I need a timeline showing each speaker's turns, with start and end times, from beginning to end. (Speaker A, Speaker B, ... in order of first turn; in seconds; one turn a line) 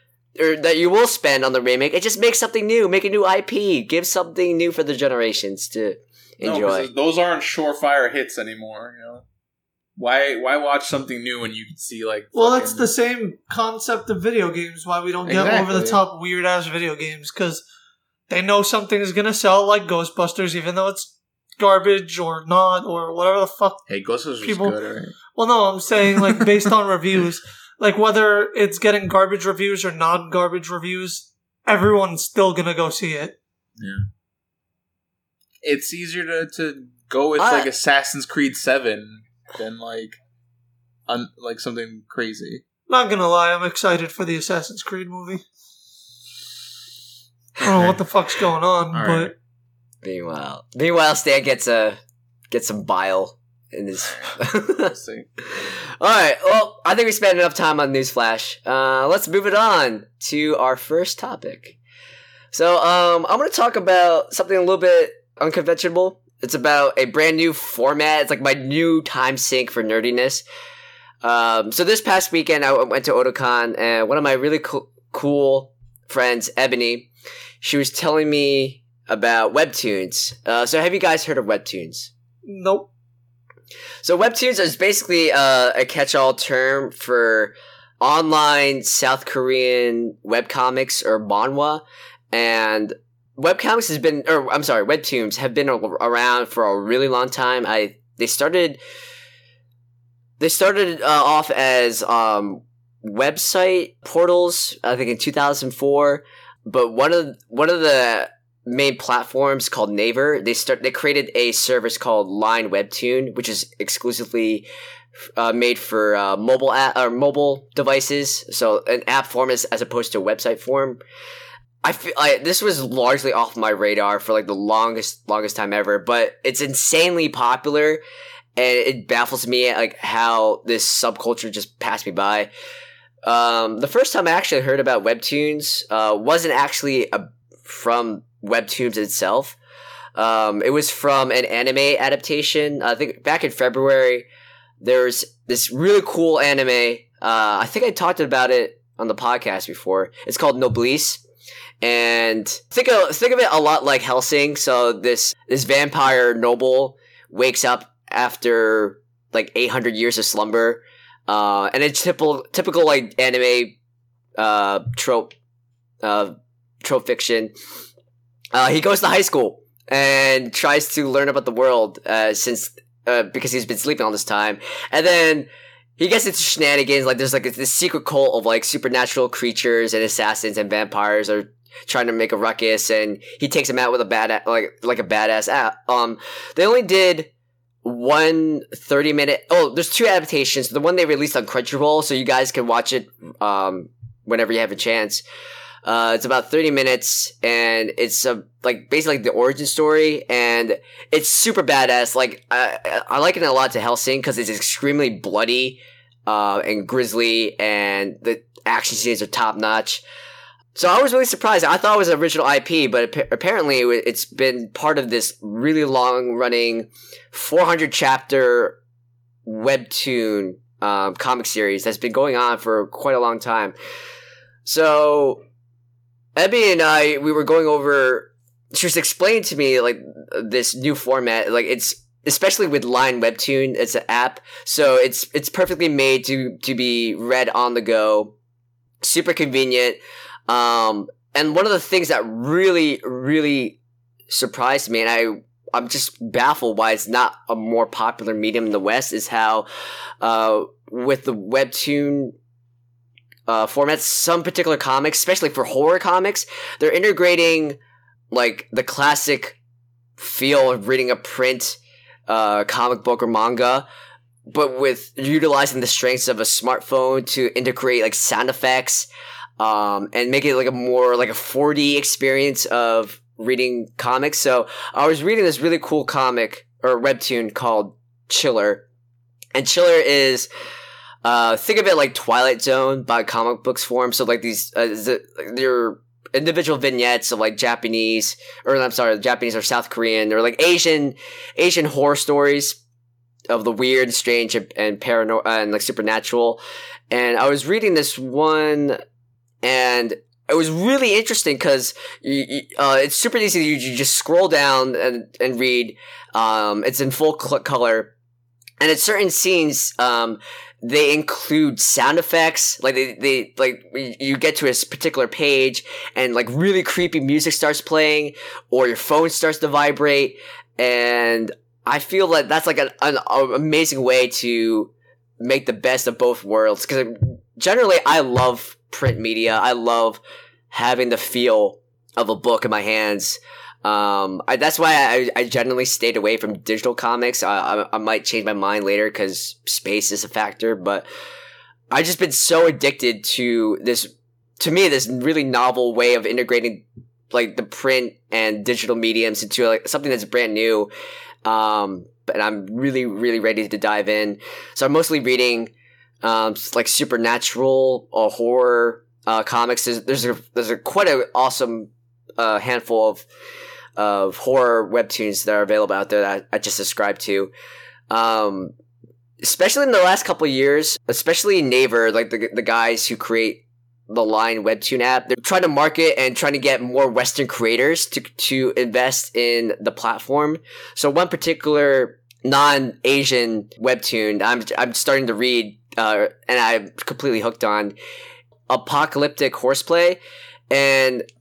Speaker A: 0.4-6.9
Speaker B: 6.4-9.2
Speaker B: 9.9-12.9
Speaker C: 12.3-17.6
Speaker B: 15.2-16.0
Speaker C: 18.3-23.9
Speaker B: 23.9-25.1
Speaker C: 24.4-24.8
Speaker C: 25.3-33.4
Speaker B: 26.1-26.5
Speaker B: 33.8-34.0
Speaker B: 35.6-40.2
Speaker A: 37.4-37.7
Speaker B: 41.1-42.6
Speaker C: 42.9-45.4
Speaker C: 47.6-49.3
Speaker B: 47.6-48.0
Speaker B: 48.9-49.3
Speaker A: 50.0-52.0
Speaker A: 52.5-54.9
Speaker B: 54.0-55.3
Speaker A: 55.5-61.8
Speaker A: 62.5-70.4
Speaker A: 71.2-77.1
Speaker A: 77.6-82.1
Speaker C: 82.5-82.9
Speaker A: 84.0-98.8
Speaker A: 100.4-114.7
Speaker A: 115.3-121.0
Speaker A: 121.8-128.0
Speaker A: 128.6-132.5
Speaker A: 133.2-139.6
Speaker A: 140.1-144.3
Speaker A: 144.8-151.2
Speaker A: 151.8-163.8
Speaker A: 164.4-165.3
Speaker A: 166.0-167.5
Speaker A: 168.5-187.3
Speaker A: 187.8-195.2
Speaker A: 195.8-210.0
Speaker A: 210.7-218.8
Speaker A: 219.4-223.7
Speaker A: 224.6-225.4
Speaker A: 226.3-238.3
Speaker A: 239.0-243.8
Speaker A: 244.3-249.7
Speaker A: 250.2-252.3
Speaker A: 253.5-257.8
Speaker A: 258.3-259.6
Speaker A: 260.2-263.9
Speaker A: 264.5-278.8
Speaker A: 279.5-280.5
Speaker A: 281.2-292.8
Speaker A: 293.5-299.0
Speaker A: 299.6-308.1
Speaker A: 308.8-341.1
Speaker A: 341.9-350.9
Speaker A: 351.4-355.7
Speaker A: 356.2-363.2
Speaker A: 364.0-367.5
Speaker A: 368.1-368.7
Speaker A: 369.4-387.9
Speaker A: 388.7-391.2